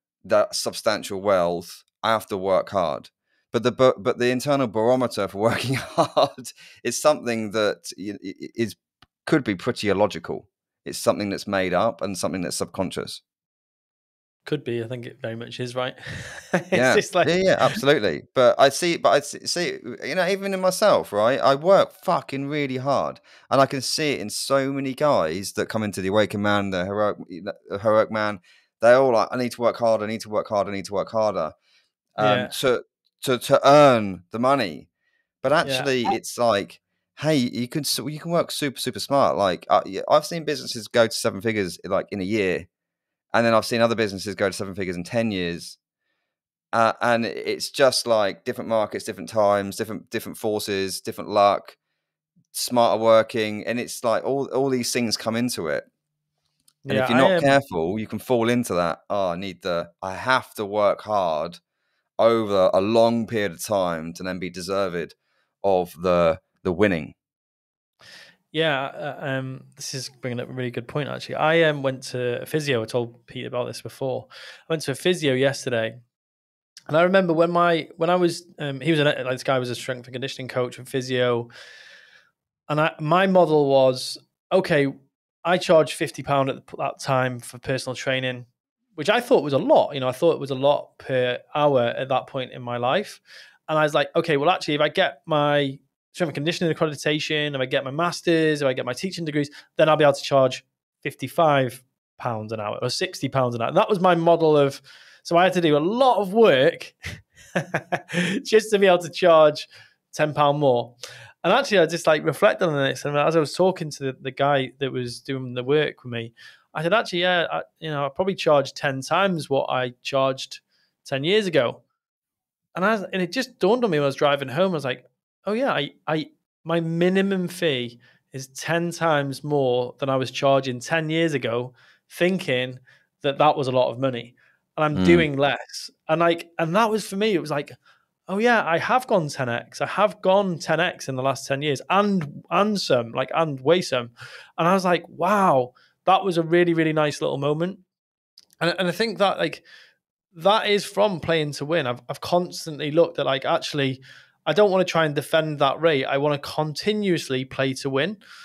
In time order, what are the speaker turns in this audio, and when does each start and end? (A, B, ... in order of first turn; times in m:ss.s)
0:00.2-0:13.2 A
0:14.4-0:17.8 B
0:16.7-0:31.5 A
0:32.2-0:34.9 A
0:32.2-0:32.5 B
0:35.4-0:42.7 A
0:35.6-0:36.1 B
0:43.3-0:45.8 A
0:46.7-0:51.8 A
0:52.5-0:55.8 A
0:56.8-0:57.6 B
0:56.9-1:01.6 A
1:02.2-1:07.1 A
1:08.5-1:16.0 B
1:16.9-1:21.5 B
1:22.7-1:24.9 B
1:25.4-2:01.8 B
2:02.7-2:17.8 B
2:14.9-2:15.3 A
2:18.3-2:27.8 B
2:28.6-2:29.6 B
2:30.3-2:38.2 B